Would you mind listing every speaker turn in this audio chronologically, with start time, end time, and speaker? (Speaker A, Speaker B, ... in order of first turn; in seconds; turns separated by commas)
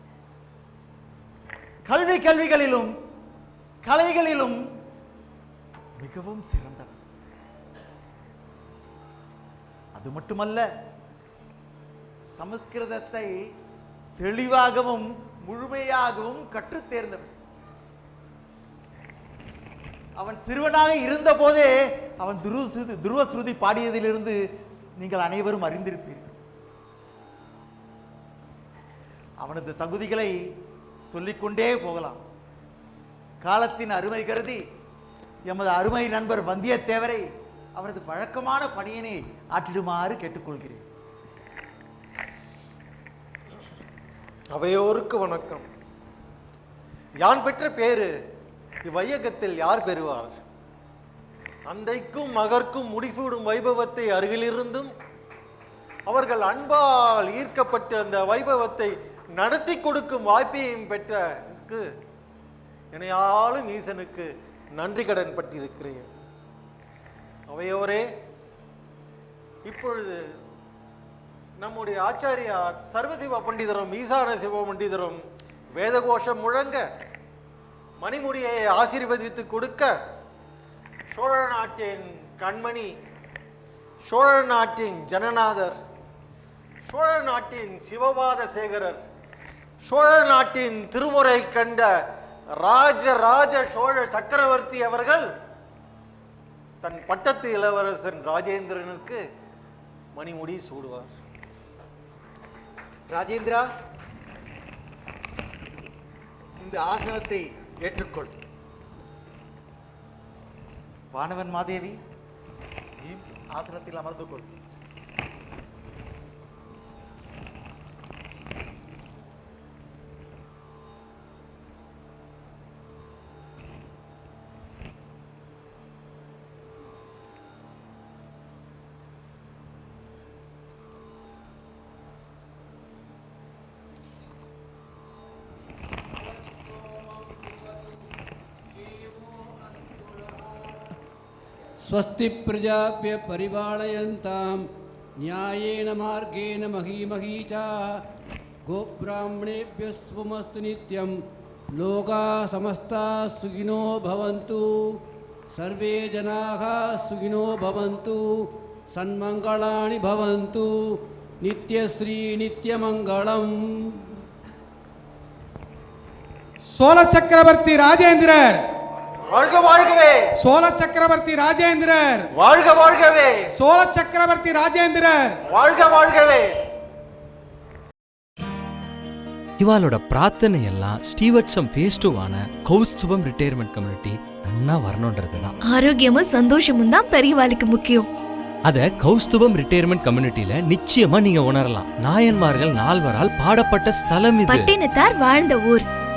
Speaker A: 1.9-2.9, Speaker A: 3.8-4.6, Speaker A: 6.0-7.0, Speaker A: 9.9-10.7, Speaker A: 12.4-13.3, Speaker A: 14.2-17.4, Speaker A: 20.2-24.4, Speaker A: 25.0-26.3, Speaker A: 29.4-30.3, Speaker A: 31.1-32.2, Speaker A: 33.4-34.6, Speaker A: 35.5-37.3, Speaker A: 37.8-40.8, Speaker B: 44.5-45.6, Speaker B: 47.2-48.1, Speaker B: 48.9-50.4, Speaker B: 51.7-54.9, Speaker B: 56.1-61.8, Speaker B: 62.9-66.1, Speaker B: 67.5-68.0, Speaker B: 69.7-70.2, Speaker B: 71.6-75.2, Speaker B: 75.8-76.8, Speaker B: 78.0-79.9, Speaker B: 81.1-82.9, Speaker B: 84.1-85.8, Speaker B: 86.9-89.0, Speaker B: 89.8-91.9, Speaker B: 92.6-95.3, Speaker B: 96.8-99.2, Speaker B: 100.2-101.1, Speaker A: 103.1-103.7, Speaker A: 106.6-108.3, Speaker A: 111.1-112.0, Speaker A: 113.0-114.5, Speaker C: 136.4-138.0, Speaker C: 138.8-140.7, Speaker C: 141.8-144.7, Speaker C: 145.2-147.9, Speaker C: 148.7-151.2, Speaker C: 151.8-155.0, Speaker C: 155.5-160.7, Speaker C: 161.4-164.1, Speaker D: 166.7-168.7, Speaker B: 169.3-170.2, Speaker D: 170.4-172.3, Speaker B: 172.3-173.4, Speaker D: 173.5-175.4, Speaker B: 175.5-176.5, Speaker E: 179.6-185.5, Speaker F: 185.7-188.1, Speaker E: 188.7-194.7, Speaker F: 194.5-195.9